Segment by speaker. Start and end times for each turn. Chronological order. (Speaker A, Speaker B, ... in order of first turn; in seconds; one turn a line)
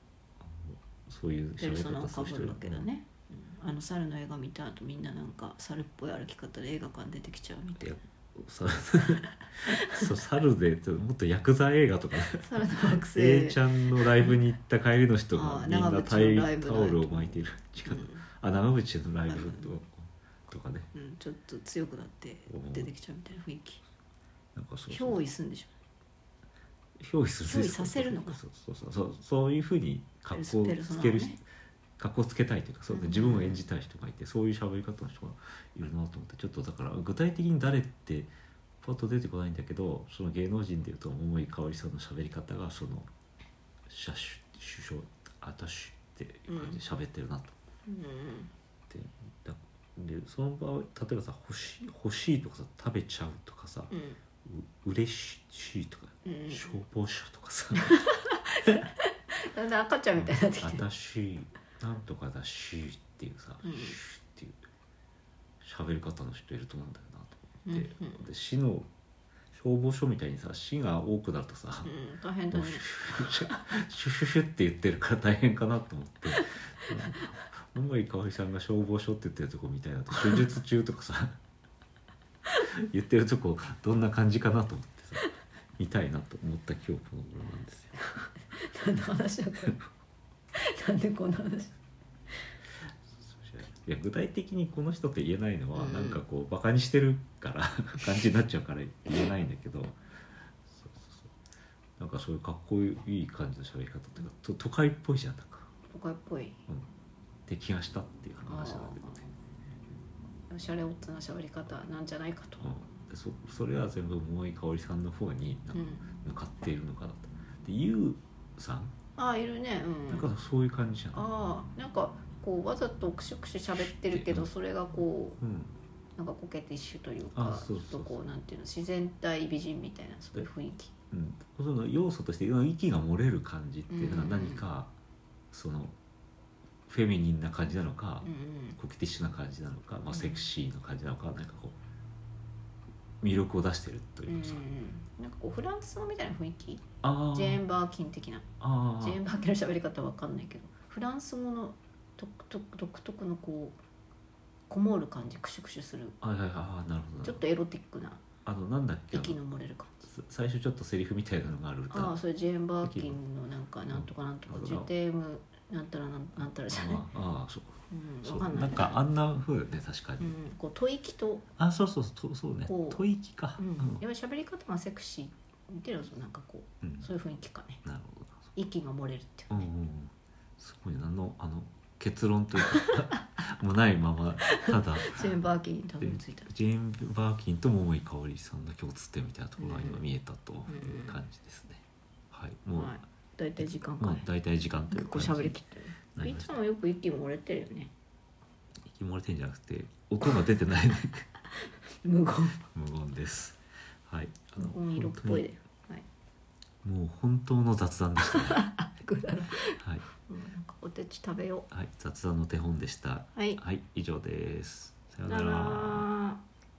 Speaker A: 0.4-2.9
Speaker B: 1.6-8.0
Speaker A: 7.8-20.9
Speaker B: 9.7-10.0
Speaker B: 12.3-14.3
Speaker B: 15.3-18.2
Speaker B: 19.3-19.8
Speaker B: 20.9-23.8
Speaker A: 22.5-22.9
Speaker A: 24.6-25.2
Speaker B: 24.9-25.7
Speaker A: 27.0-31.4
Speaker B: 27.5-28.4
Speaker B: 30.3-31.4
Speaker A: 32.0-38.3
Speaker B: 32.9-33.6
Speaker A: 38.8-43.1
Speaker A: 43.9-47.5
Speaker B: 46.5-46.8
Speaker B: 47.9-48.5
Speaker A: 48.9-53.9
Speaker B: 53.9-54.2
Speaker A: 54.4-58.0
Speaker B: 56.2-56.8
Speaker B: 57.8-60.9
Speaker A: 60.2-64.6
Speaker B: 63.6-64.0
Speaker A: 65.6-68.9
Speaker B: 67.7-68.2
Speaker A: 69.5-71.9
Speaker B: 71.8-73.6
Speaker A: 72.5-81.4
Speaker A: 82.6-85.3
Speaker A: 85.8-88.0
Speaker B: 88.1-89.8
Speaker B: 90.5-91.8
Speaker A: 93.1-100.0
Speaker B: 95.7-96.2
Speaker A: 100.7-101.3
Speaker A: 102.0-105.7
Speaker B: 105.9-106.6
Speaker A: 107.5-109.3
Speaker B: 108.5-109.1
Speaker B: 110.5-112.7
Speaker A: 112.6-118.9
Speaker B: 115.7-116.0
Speaker B: 119.2-120.3
Speaker A: 120.1-121.3
Speaker B: 121.1-125.4
Speaker A: 123.9-124.5
Speaker A: 125.4-125.8
Speaker B: 126.2-130.9
Speaker A: 127.3-128.2
Speaker A: 131.1-134.9
Speaker B: 133.9-134.6
Speaker A: 135.5-136.0
Speaker A: 136.9-141.8
Speaker B: 138.2-138.8
Speaker B: 140.1-140.4
Speaker A: 143.2-144.7
Speaker B: 144.3-148.5
Speaker A: 147.0-147.6
Speaker A: 148.6-149.2
Speaker B: 149.0-153.8
Speaker B: 154.7-156.2
Speaker A: 156.2-157.4
Speaker B: 157.2-158.2
Speaker A: 158.4-159.4
Speaker B: 159.1-160.1
Speaker A: 160.0-162.2
Speaker B: 161.9-167.1
Speaker A: 162.8-163.2
Speaker A: 163.9-164.9
Speaker A: 166.4-170.3
Speaker B: 167.9-169.0
Speaker B: 170.2-171.5
Speaker A: 171.6-174.0
Speaker B: 172.7-173.0
Speaker B: 173.6-177.8
Speaker A: 176.8-177.1
Speaker A: 177.8-178.5
Speaker B: 178.6-179.7
Speaker A: 179.5-185.4
Speaker B: 182.7-183.2
Speaker B: 184.6-186.5
Speaker A: 186.0-193.0
Speaker B: 189.6-190.1
Speaker B: 190.7-191.2
Speaker B: 192.8-194.3
Speaker A: 193.6-195.6
Speaker B: 194.9-197.9
Speaker A: 196.2-196.6
Speaker A: 198.8-201.3
Speaker B: 202.0-202.6
Speaker A: 202.7-205.5
Speaker B: 204.6-206.1
Speaker A: 206.8-208.6
Speaker B: 208.2-211.7
Speaker A: 209.8-210.1
Speaker A: 211.7-216.1
Speaker B: 213.3-213.6
Speaker B: 215.3-216.4